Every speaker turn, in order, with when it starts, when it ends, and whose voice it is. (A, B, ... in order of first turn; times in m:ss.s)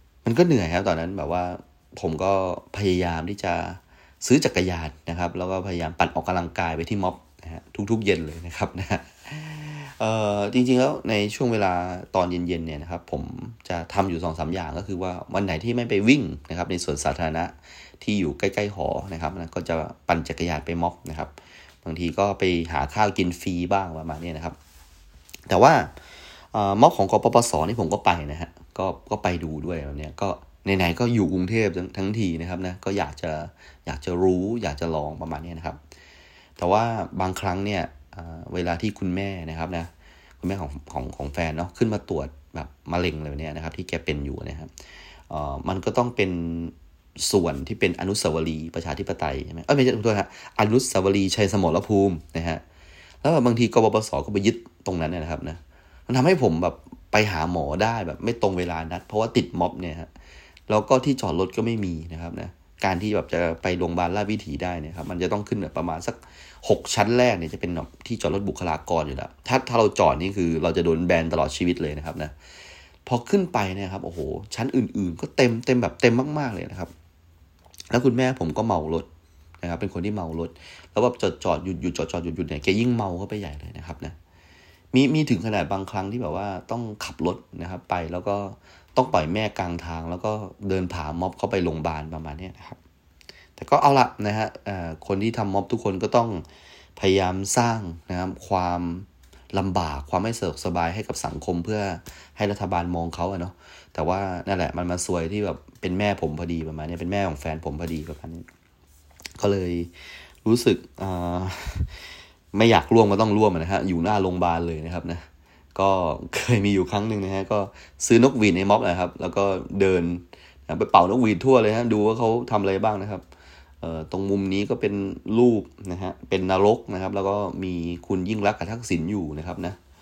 0:00.2-0:24.6 A
0:25.5-0:25.9 A
0:26.5-0:35.8 A
0:36.6-0:39.9 A
0:40.4-0:44.7 A
0:45.3-0:52.6 A
0:53.2-1:00.1 A
1:00.7-1:12.3 A
1:13.1-1:16.9 A
1:17.9-1:19.1 A
1:19.6-1:24.2 A
1:24.9-1:32.8 A
1:33.6-1:36.4 A
1:37.0-1:48.5 A
1:49.4-1:49.9 A
1:50.4-1:51.9 A
1:52.5-2:03.2 A
2:03.8-2:09.8 A